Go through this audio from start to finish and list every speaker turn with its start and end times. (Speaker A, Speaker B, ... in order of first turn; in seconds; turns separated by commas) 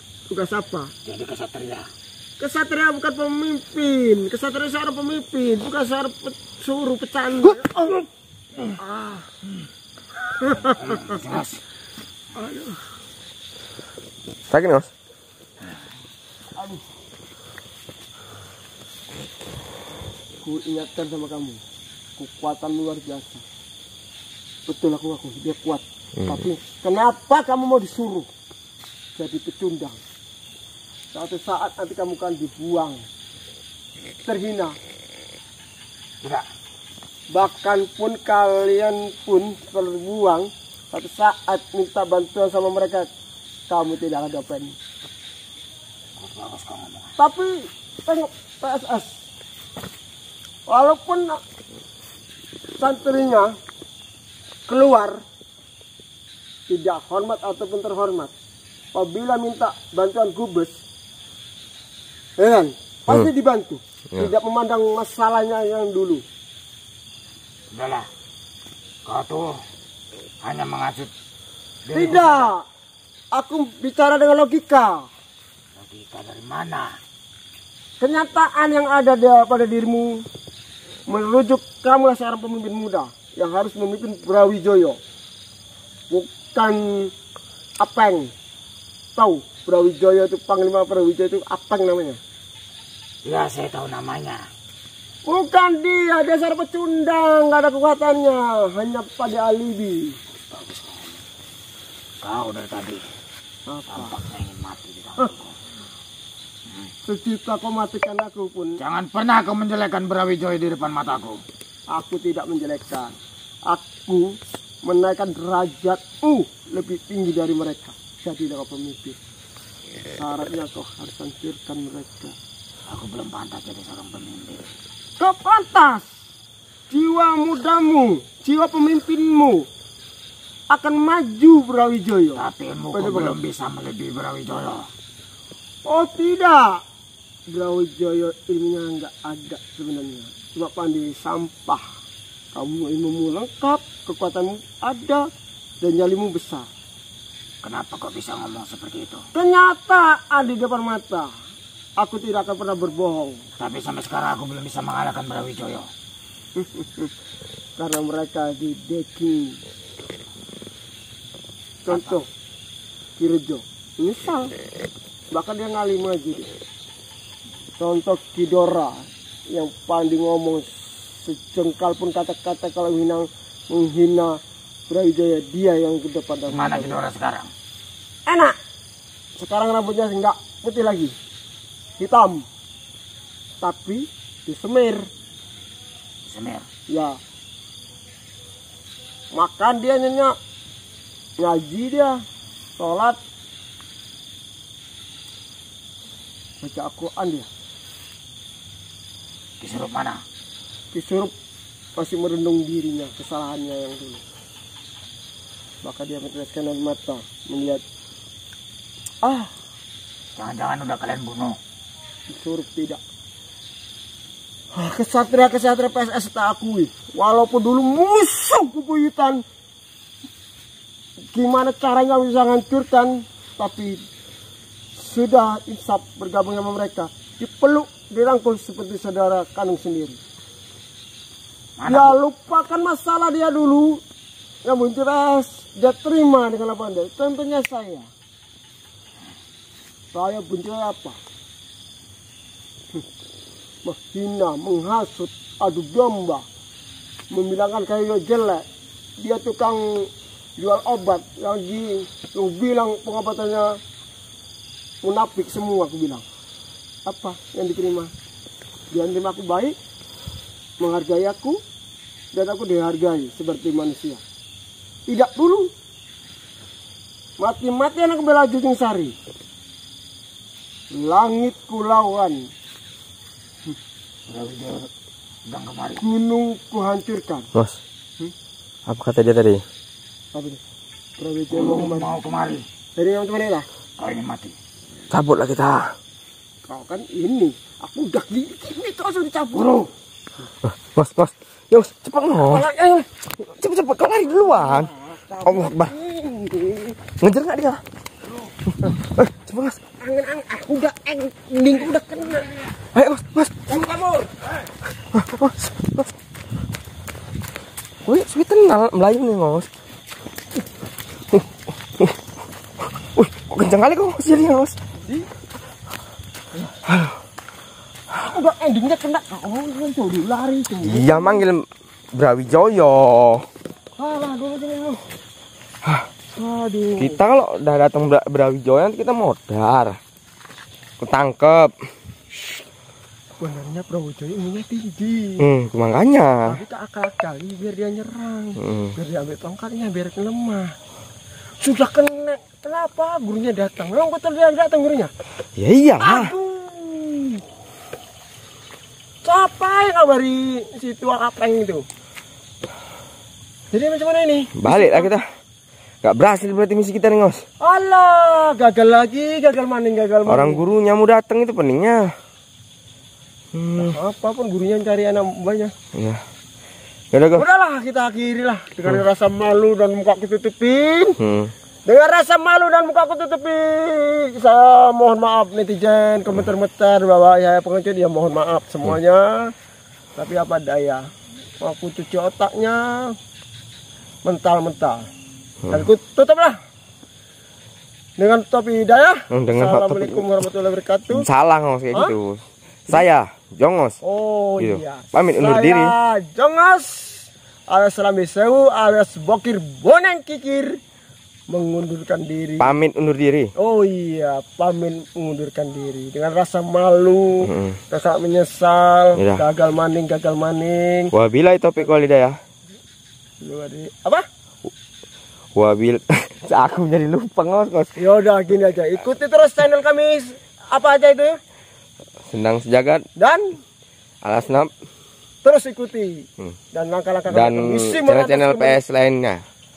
Speaker A: 0.3-0.9, Speaker B: 1.0-1.9, Speaker A: 2.4-8.0, Speaker A: 8.8-9.3, Speaker A: 10.4-11.1, Speaker B: 10.6-11.6, Speaker A: 12.4-12.8, Speaker C: 14.5-14.9, Speaker A: 16.6-16.8, Speaker A: 20.4-21.6, Speaker A: 22.2-23.4, Speaker A: 24.7-28.3, Speaker C: 26.2-26.4, Speaker A: 29.1-30.0, Speaker A: 31.1-33.0, Speaker A: 34.2-34.7, Speaker A: 37.3-43.1, Speaker A: 43.7-44.7, Speaker B: 46.2-47.1, Speaker A: 47.2-47.5, Speaker A: 48.0-49.1, Speaker A: 50.7-51.4, Speaker A: 52.8-53.5, Speaker A: 54.7-55.2, Speaker A: 56.7-58.3, Speaker A: 58.9-60.8, Speaker A: 62.4-66.2, Speaker B: 67.7-68.0, Speaker B: 69.0-69.5, Speaker B: 70.4-71.1, Speaker B: 71.8-72.5, Speaker A: 71.9-72.6, Speaker A: 73.3-75.1, Speaker B: 75.8-76.9, Speaker A: 78.0-80.1, Speaker A: 81.1-85.0, Speaker A: 86.1-87.1, Speaker A: 87.8-88.3, Speaker A: 89.2-92.2, Speaker B: 93.2-94.4, Speaker A: 95.2-100.2, Speaker B: 100.5-101.2, Speaker B: 102.2-103.0, Speaker A: 103.7-104.1, Speaker B: 103.9-105.5, Speaker A: 107.1-108.8, Speaker B: 108.8-111.4, Speaker A: 111.9-113.1, Speaker A: 113.7-119.2, Speaker A: 120.1-122.3, Speaker B: 122.9-124.6, Speaker A: 125.2-126.1, Speaker A: 126.9-129.7, Speaker A: 130.7-133.4, Speaker B: 132.3-134.9, Speaker A: 135.8-136.7, Speaker A: 137.5-141.8, Speaker A: 142.5-145.2, Speaker A: 145.8-146.7, Speaker B: 147.6-149.2, Speaker A: 149.3-151.3, Speaker A: 152.0-153.4, Speaker B: 153.6-155.9, Speaker A: 156.6-157.1, Speaker A: 157.8-159.6, Speaker A: 161.8-162.3, Speaker B: 161.9-162.2, Speaker A: 163.2-164.5, Speaker A: 165.3-166.5, Speaker A: 167.8-174.4, Speaker A: 174.9-177.0, Speaker B: 176.5-177.5, Speaker A: 178.3-178.5, Speaker A: 179.4-181.1, Speaker A: 182.0-182.4, Speaker A: 183.6-185.1, Speaker B: 186.2-186.7, Speaker A: 186.9-187.2, Speaker A: 189.3-190.3, Speaker A: 191.4-192.2, Speaker A: 192.8-193.2, Speaker A: 196.6-197.5, Speaker B: 199.6-200.2, Speaker A: 200.9-201.3, Speaker A: 202.0-204.2, Speaker A: 205.8-207.8, Speaker A: 209.2-209.5, Speaker B: 210.3-211.6, Speaker A: 212.3-213.0, Speaker A: 214.7-219.4, Speaker A: 221.3-224.0, Speaker A: 224.9-230.2, Speaker B: 231.8-232.1, Speaker A: 231.8-234.0, Speaker A: 234.6-238.1, Speaker A: 240.1-241.2, Speaker A: 243.8-246.4, Speaker A: 247.3-248.6, Speaker A: 249.2-253.7, Speaker A: 255.0-256.2, Speaker A: 257.1-258.1, Speaker A: 258.9-259.8, Speaker A: 260.8-261.6, Speaker A: 262.3-264.2, Speaker A: 265.1-265.7, Speaker A: 267.4-269.1, Speaker A: 270.9-272.4, Speaker B: 274.3-274.9, Speaker B: 275.5-276.0, Speaker A: 276.0-277.5, Speaker C: 278.9-279.6, Speaker A: 280.3-280.6, Speaker A: 281.2-282.1, Speaker B: 281.5-282.6, Speaker A: 282.9-283.7, Speaker B: 284.0-284.6, Speaker C: 285.1-285.9, Speaker A: 286.7-289.8, Speaker B: 289.5-289.9, Speaker C: 290.7-292.6, Speaker A: 292.4-293.1, Speaker C: 293.6-294.9, Speaker A: 294.3-296.9, Speaker C: 295.4-295.9, Speaker C: 297.2-297.8, Speaker C: 299.0-299.8, Speaker A: 300.0-302.5, Speaker C: 302.9-303.6, Speaker A: 303.7-304.3, Speaker C: 305.1-306.1, Speaker C: 308.0-309.7, Speaker C: 313.1-314.8, Speaker C: 316.9-317.1, Speaker A: 318.1-321.4, Speaker C: 320.8-323.4, Speaker A: 324.0-325.0, Speaker A: 326.3-327.2, Speaker C: 327.0-330.0, Speaker C: 331.0-331.7, Speaker A: 333.4-335.5, Speaker C: 335.4-336.5, Speaker A: 336.4-340.7, Speaker C: 338.6-338.9, Speaker A: 341.6-345.1, Speaker C: 345.6-346.3, Speaker A: 346.0-347.4, Speaker A: 349.2-351.8, Speaker A: 353.7-355.1, Speaker C: 354.6-355.2, Speaker C: 356.0-357.4, Speaker A: 357.6-360.6, Speaker C: 360.3-362.1, Speaker C: 363.5-364.0, Speaker A: 363.8-365.7, Speaker C: 365.9-366.2, Speaker C: 367.1-367.4, Speaker A: 367.3-371.2, Speaker C: 371.2-371.5, Speaker A: 371.9-379.5, Speaker A: 380.2-381.0, Speaker A: 381.6-383.1, Speaker A: 384.2-385.1, Speaker A: 385.7-386.6, Speaker A: 388.2-391.3, Speaker C: 389.3-390.3, Speaker C: 391.1-394.0, Speaker A: 394.0-400.8, Speaker C: 394.6-395.9, Speaker A: 401.5-402.8, Speaker C: 402.6-403.5, Speaker A: 403.6-411.1, Speaker C: 407.4-407.8, Speaker C: 409.1-409.4, Speaker C: 411.1-412.4, Speaker A: 413.4-414.2, Speaker C: 415.5-417.9, Speaker A: 417.9-421.3, Speaker C: 422.3-423.0, Speaker A: 423.2-423.6, Speaker C: 424.2-424.7, Speaker A: 425.4-428.8, Speaker C: 427.3-429.4